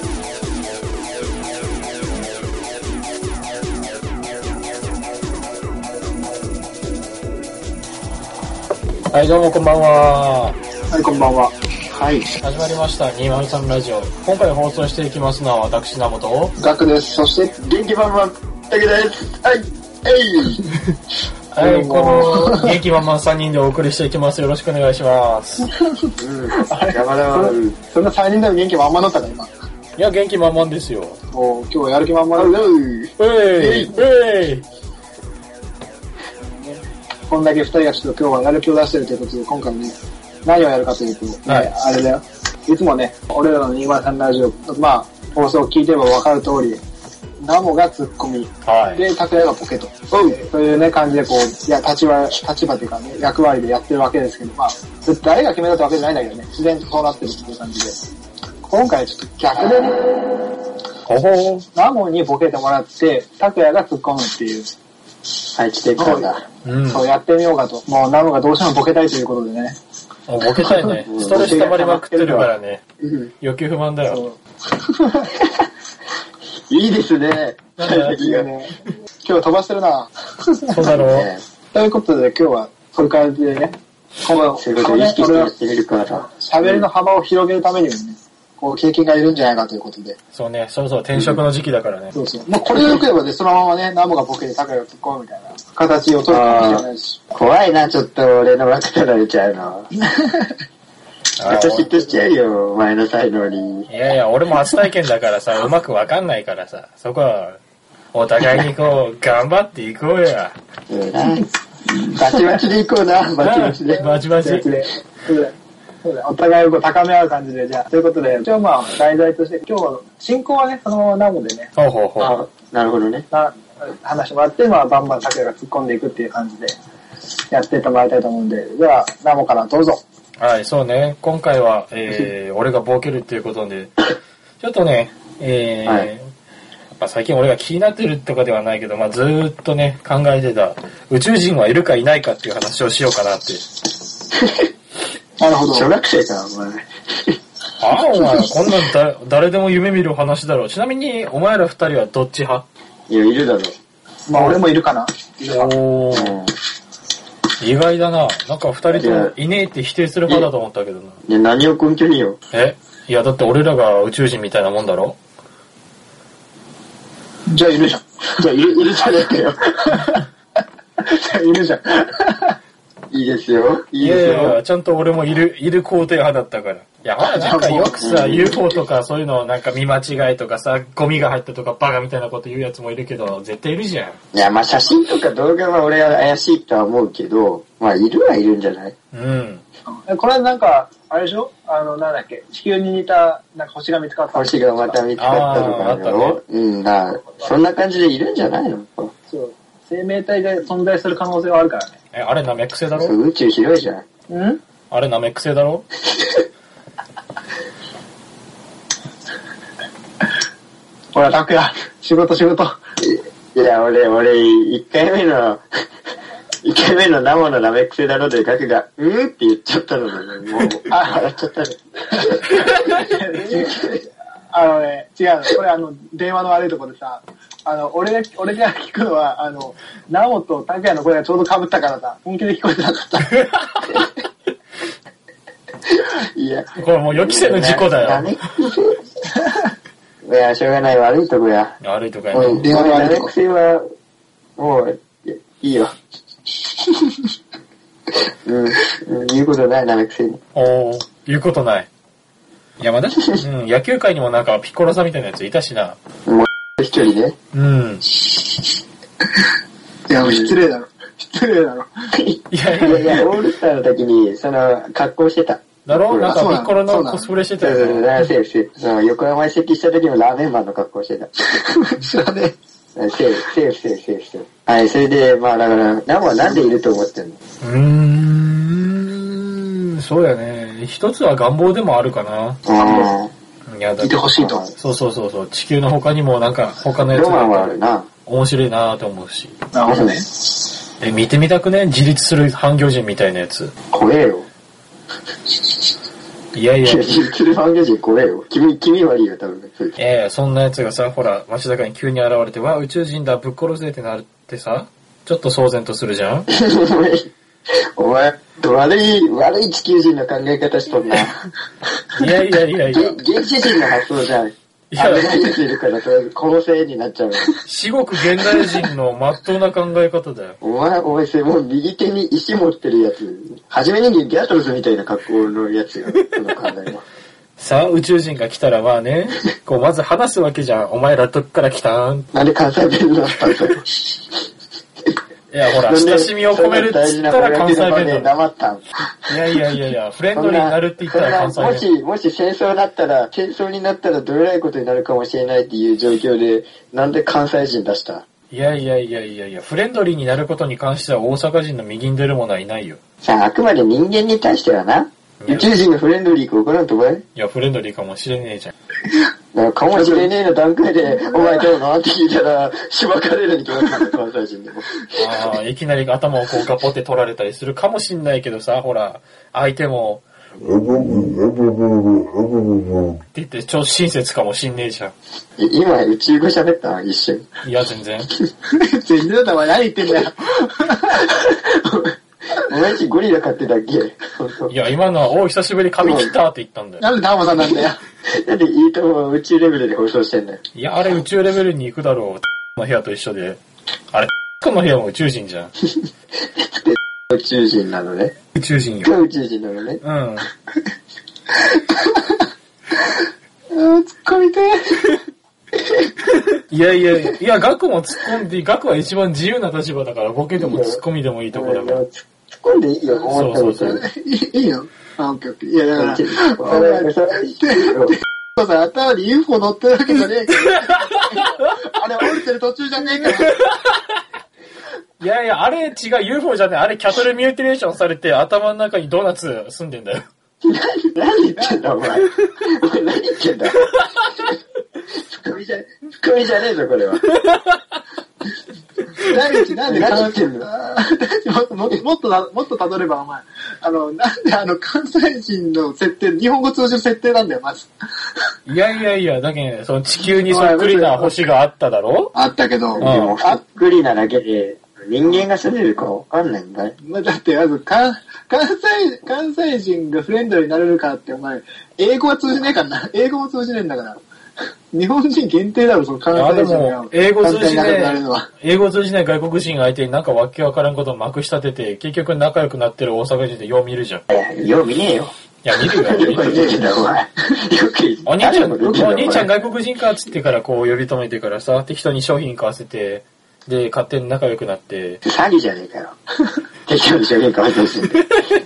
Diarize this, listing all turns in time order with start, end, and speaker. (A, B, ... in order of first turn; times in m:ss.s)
0:09.1-0:10.6 A
0:10.9-0:11.5 B
0:11.9-0:12.3 C
0:12.4-0:16.5 A
0:16.6-0:17.5 B
0:17.6-0:20.6 C
0:21.5-0:22.8 B
0:21.5-0:25.7 A
0:25.7-0:29.5 B
0:26.2-0:27.8 C
0:30.0-0:31.2 A
0:31.3-0:32.7 B
0:32.3-0:33.9 C
0:33.2-0:34.6 A
0:37.3-0:46.8 B
0:41.4-0:41.7 A
0:47.4-0:58.0 B
0:48.6-0:49.0 A
0:50.1-0:50.4 C
0:58.6-1:00.0 B
0:59.4-0:59.9 C
1:01.0-1:01.7 A
1:01.7-1:04.7 B
1:05.5-1:06.4 C
1:06.0-1:09.7 B
1:06.6-1:07.0 A
1:10.3-1:12.8 A
1:10.6-1:11.0 B
1:11.0-1:13.3 C
1:13.4-1:14.2 A
1:14.1-1:15.3 B
1:15.4-1:15.6 C
1:16.7-1:18.5 C
1:17.8-1:18.2 A
1:18.0-1:20.8 B
1:20.7-1:21.3 A
1:20.9-1:21.4 C
1:21.7-1:25.5 B
1:24.6-1:26.8 C
1:26.2-1:30.2 B
1:30.3-1:32.1 A
1:31.1-1:31.4 C
1:32.1-1:37.2 B
1:32.7-1:33.0 C
1:36.3-1:39.9 C
1:40.0-1:40.5 B
1:41.4-1:42.0 A
1:41.4-1:43.9 C
1:43.9-1:47.6 A
1:48.1-1:50.6 A
1:50.9-1:54.1 C
1:52.2-1:52.5 B
1:53.4-1:54.7 A
1:54.0-2:01.7 B
2:01.8-2:02.4 A
2:02.2-2:03.3 C
2:03.3-2:06.8 B
2:07.5-2:10.0 B
2:10.4-2:14.1 A
2:14.6-2:16.3 A
2:17.0-2:23.6 A
2:24.4-2:24.7 C
2:25.4-2:25.9 B
2:25.7-2:27.4 C
2:27.8-2:32.6 A
2:33.1-2:33.7 C
2:34.3-2:35.7 B
2:35.5-2:36.4 A
2:36.1-2:36.5 C
2:37.6-2:41.2 A
2:38.9-2:39.4 C
2:41.2-2:42.4 C
2:42.5-2:45.2 A
2:47.5-2:48.0 B
2:48.4-2:50.0 C
2:49.8-2:50.2 B
2:51.0-2:52.6 B
2:53.1-2:54.6 C
2:54.0-3:04.2 A
2:57.2-2:58.0 B
2:58.0-2:58.6 C
3:04.3-3:08.9 C
3:09.1-3:09.6 A
3:09.9-3:15.0 B
3:14.3-3:19.1 C
3:15.2-3:16.4 A
3:19.3-3:21.9 B
3:22.1-3:23.2 A
3:23.0-3:24.0 C
3:24.3-3:24.6 B
3:24.9-3:25.9 A
3:31.1-3:32.7 B
3:33.0-3:35.6 C
3:36.6-3:42.6 C
3:40.9-3:41.3 B
3:42.1-3:53.4 B
3:42.6-3:42.9 A
3:43.3-3:44.0 C
3:55.9-3:59.0 C
3:56.8-3:58.3 A
3:59.3-3:59.6 B
4:00.2-4:01.7 C
4:01.8-4:02.7 A
4:02.3-4:03.8 C
4:02.5-4:03.3 B
4:04.6-4:05.9 C
4:08.4-4:10.4 C
4:10.5-4:11.9 A
4:12.8-4:16.0 A
4:16.2-4:17.4 C
4:17.5-4:18.1 A
4:18.3-4:18.6 B
4:20.1-4:21.9 B
4:20.2-4:20.6 C
4:22.1-4:26.5 C
4:22.5-4:23.2 A
4:25.8-4:28.1 A
4:26.2-4:27.3 B
4:27.6-4:31.3 C
4:31.5-4:32.6 B
4:33.0-4:37.4 C
4:37.6-4:42.6 A
4:42.6-4:43.3 C
4:42.8-4:43.2 B
4:43.7-4:49.5 A
4:44.0-4:44.7 B
4:44.3-4:44.7 C
4:47.0-4:48.1 C
4:49.7-4:50.2 B
4:49.8-4:50.2 C
4:51.0-4:53.7 A
4:53.9-4:54.5 C
4:56.5-4:57.2 A
4:56.8-5:00.0 C
5:00.0-5:06.5 A
5:06.5-5:07.3 C
5:08.0-5:11.4 C
5:12.1-5:13.2 A
5:12.9-5:17.5 C
5:14.9-5:15.5 A
5:17.6-5:20.6 A
5:18.3-5:18.8 B
5:20.6-5:27.0 C
5:27.6-5:32.3 A
5:32.3-5:34.2 C
5:35.5-5:38.3 A
5:35.8-5:38.8 C
5:39.3-5:41.9 A
5:40.3-5:48.2 C
5:48.5-5:53.0 A
5:53.2-5:57.2 C
5:55.4-5:55.7 A
5:57.4-5:58.7 A
5:59.5-6:04.9 C
5:59.9-6:00.3 B
6:01.1-6:01.7 B
6:05.1-6:10.2 A
6:13.3-6:15.1 A
6:15.6-6:17.5 C
6:17.6-6:18.3 A
6:18.7-6:21.3 B
6:21.2-6:24.8 C
6:24.7-6:27.0 A
6:26.0-6:26.3 C
6:27.0-6:28.0 B
6:28.3-6:30.6 C
6:30.7-6:33.6 A
6:34.1-6:35.7 A
6:36.4-6:38.3 C
6:38.5-6:39.1 A
6:39.0-6:40.0 C
6:40.0-6:40.5 A
6:41.6-6:42.2 B
6:43.7-6:45.2 B
6:46.5-6:52.0 A
6:50.6-6:54.0 C
6:53.1-7:03.6 B
6:53.3-6:54.0 A
6:55.9-6:58.2 C
7:05.2-7:10.2 A
7:10.6-7:13.9 C
7:11.6-7:12.0 B
7:15.1-7:17.2 C
7:19.2-7:27.9 B
7:19.9-7:20.7 C
7:28.6-7:32.3 A
7:30.2-7:31.3 B
7:32.3-7:33.5 B
7:32.9-7:37.0 C
7:33.0-7:33.4 A
7:37.0-7:44.2 B
7:44.9-7:48.5 B
7:46.3-7:54.2 A
7:54.3-7:55.3 C
7:55.6-7:56.8 A
7:55.8-7:59.5 C
7:56.7-7:57.1 B
7:58.2-8:05.2 A
8:05.2-8:06.1 C
8:06.8-8:08.2 C